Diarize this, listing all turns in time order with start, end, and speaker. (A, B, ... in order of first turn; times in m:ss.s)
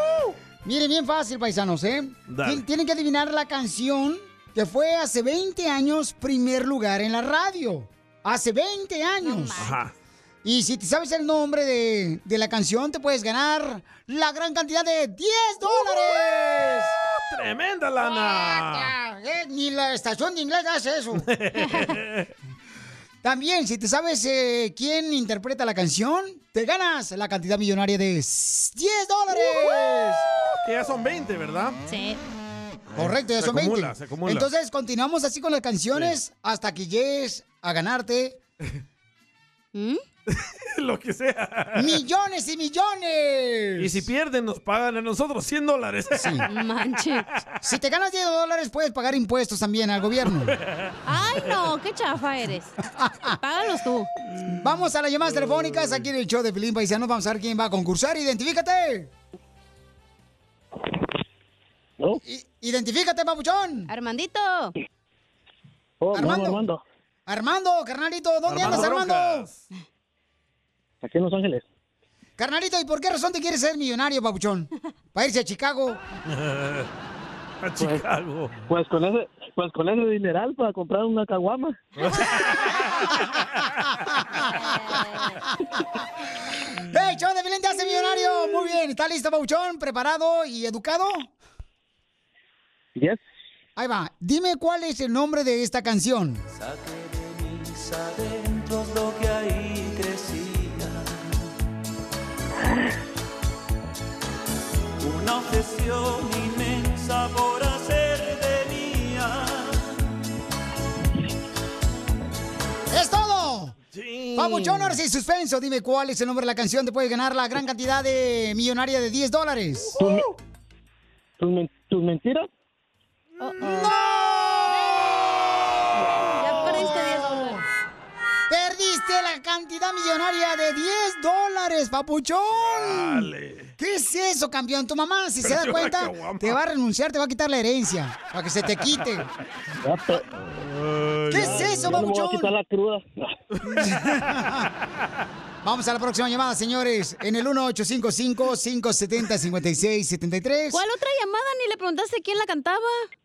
0:00.6-0:09.7 A
0:02.3-0:02.6 B
0:09.2-0:09.7 C
0:09.6-0:09.9 B
0:10.4-0:16.9 A
0:17.3-0:18.9 B
0:18.0-0:21.2 A
0:21.2-0:22.3 B
0:23.2-0:30.2 A
0:30.6-0:31.8 B
0:31.9-0:32.2 C
0:32.9-0:34.5 B
0:33.0-0:38.4 A
0:39.7-0:40.0 C
0:40.3-0:42.0 B
0:41.7-0:44.0 A
0:43.8-0:46.5 B
0:46.1-0:46.4 A
0:46.5-0:47.2 C
0:47.6-0:50.6 A
0:50.5-0:50.9 B
0:51.0-0:52.8 C
0:52.9-0:53.4 A
0:53.4-0:54.1 C
0:54.4-0:59.1 A
0:55.4-0:56.0 B
1:02.2-1:03.9 A
1:03.9-1:04.7 C
1:06.0-1:06.8 D
1:06.1-1:06.6 A
1:07.3-1:09.5 A
1:08.5-1:09.6 B
1:11.0-1:11.6 D
1:12.4-1:16.0 A
1:16.3-1:16.9 B
1:17.6-1:18.5 B
1:18.7-1:21.8 D
1:22.0-1:23.1 B
1:23.9-1:25.2 A
1:24.5-1:25.4 C
1:26.8-1:31.3 A
1:33.0-1:33.2 D
1:33.8-1:36.4 A
1:36.5-1:41.3 E
1:45.0-1:50.0 E
1:52.9-1:53.8 A
1:53.9-1:55.0 B
1:54.3-2:00.0 A
2:00.0-2:00.2 D
2:01.4-2:02.5 D
2:03.4-2:03.9 C
2:03.4-2:03.8 B
2:03.6-2:05.2 A
2:04.7-2:05.0 C
2:06.3-2:07.6 C
2:06.4-2:07.6 A
2:08.5-2:19.3 A
2:12.6-2:13.7 B
2:15.4-2:16.6 B
2:19.8-2:20.2 D
2:20.8-2:22.0 B
2:21.3-2:22.5 A
2:21.3-2:23.3 D
2:23.6-2:23.9 B
2:23.6-2:24.7 A
2:25.6-2:30.8 A
2:30.7-2:33.0 C